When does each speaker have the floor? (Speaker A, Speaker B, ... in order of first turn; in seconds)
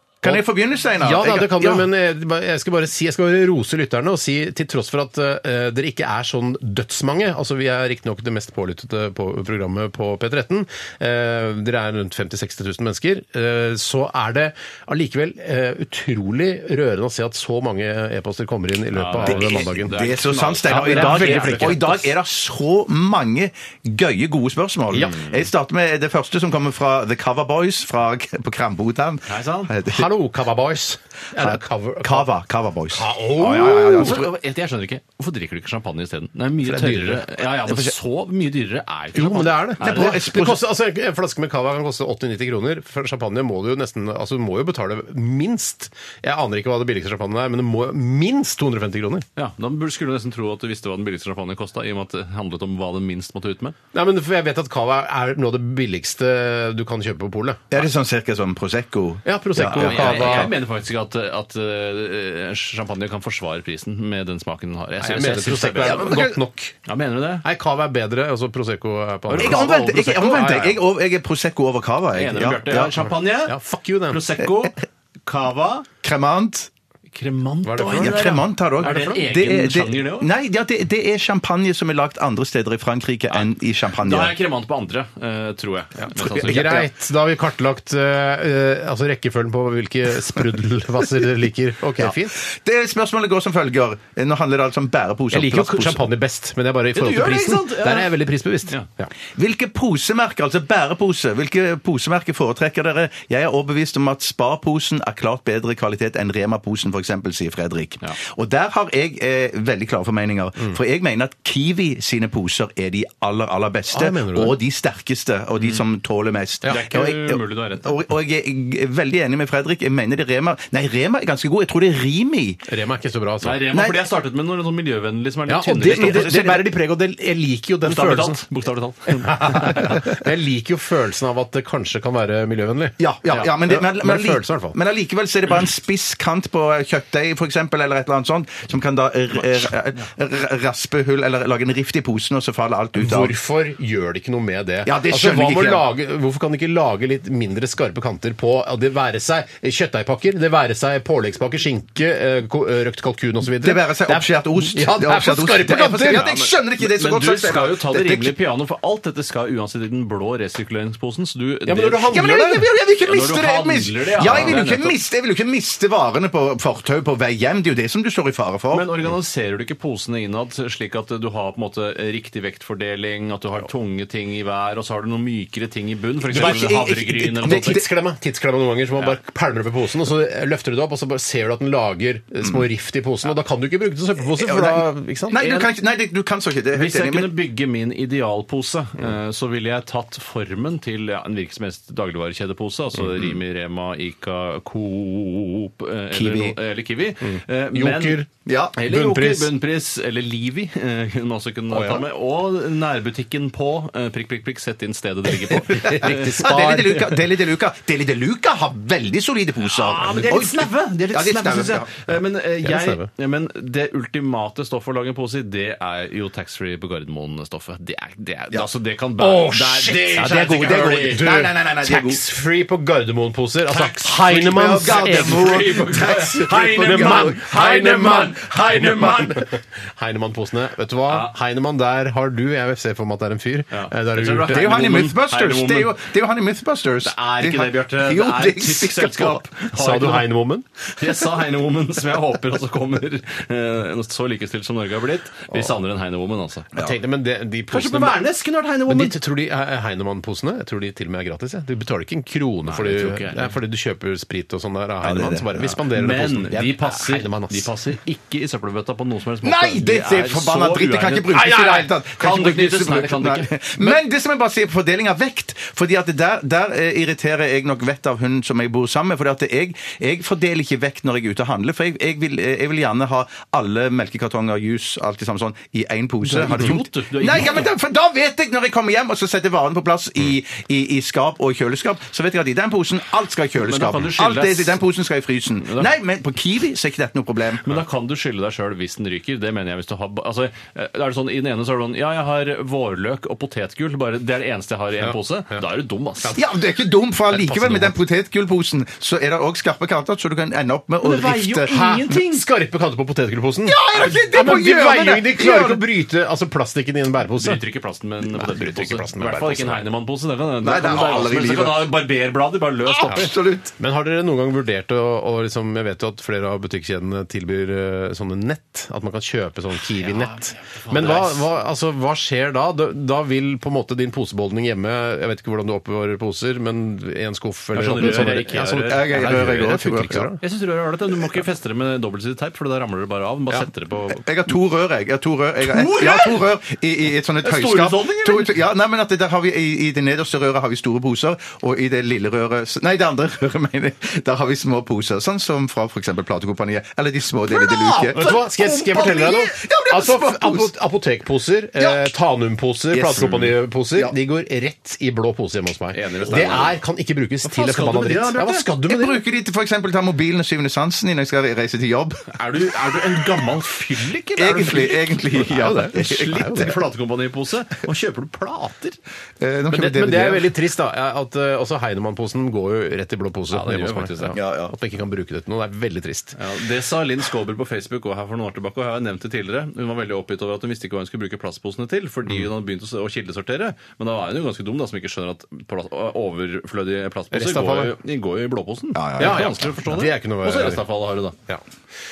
Speaker A: 0.2-1.9, 19.2-30.1, 31.4-34.3, 37.7-37.9, 39.8-40.6, 57.7-60.5, 65.8-66.4, 69.4-73.0, 74.4-74.7, 76.0-76.7, 78.0-84.4, 86.2-86.8, 92.0-96.1, 99.3-122.6, 123.7-124.1, 125.8-126.7, 133.0-143.3, 144.8-145.9, 153.5-158.4, 162.1-168.9, 176.3-177.9, 184.2-187.3, 198.5-198.8, 206.0-211.9, 220.2-222.2, 224.3-227.5, 234.5-239.4, 255.0-255.5, 259.4-287.8, 296.3-301.7, 303.6-305.9, 310.6-312.0, 312.9-313.7, 328.0-330.3, 334.1-350.7, 351.8-352.1, 352.9-354.1, 358.9-362.3, 364.4-366.8, 369.4-370.5, 374.4-374.8, 388.9-389.5
Speaker B: 1.0-19.9, 20.6-22.1, 24.9-25.2, 29.9-32.3, 32.9-34.2, 36.6-37.3, 39.1-49.3, 53.9-57.8, 59.2-60.5, 65.0-66.8, 67.4-70.8, 73.0-74.2, 77.7-78.2, 78.8-79.2, 86.0-92.4, 95.3-99.1, 113.9-114.6, 122.7-123.6, 125.5-128.4, 129.1-134.8, 142.9-156.3, 161.7-162.7, 176.3-176.7, 177.4-185.4, 196.2-196.6, 197.2-198.3, 198.8-199.5, 201.7-202.0, 205.7-207.1, 212.6-213.1, 219.2-225.7, 226.8-234.6, 239.7-240.7, 246.8-248.2, 248.9-257.7, 261.4-261.8, 295.0-295.6, 297.3-298.0, 301.6-307.6, 308.2-309.9, 313.8-330.4, 347.5-359.2, 365.5-366.7, 369.7-376.4, 387.3-387.9, 389.2-390.8
Speaker C: 18.9-22.0, 29.3-29.7, 33.9-40.3, 49.4-53.8, 59.8-66.2, 66.9-67.5, 69.3-70.4, 72.1-73.6, 74.1-75.9, 77.1-80.3, 83.3-86.9, 97.0-98.1, 116.7-118.0, 123.4-126.4, 127.8-130.1, 156.2-162.2, 163.0-165.0, 168.7-177.8, 185.3-185.7, 186.7-198.2, 198.8-206.8, 209.7-221.2, 223.7-229.6, 233.7-236.0, 237.0-240.4, 241.0-246.7, 247.7-249.2, 252.7-253.5, 255.6-263.9, 276.2-277.7, 283.6-284.8, 285.6-285.9, 287.6-296.4, 301.0-302.5, 307.4-313.4, 319.8-321.4, 327.7-329.1, 330.4-334.2, 335.6-336.5, 337.4-338.5, 353.2-353.5, 355.9-356.8, 357.4-358.7, 362.3-369.0, 373.5-374.4, 376.4-391.4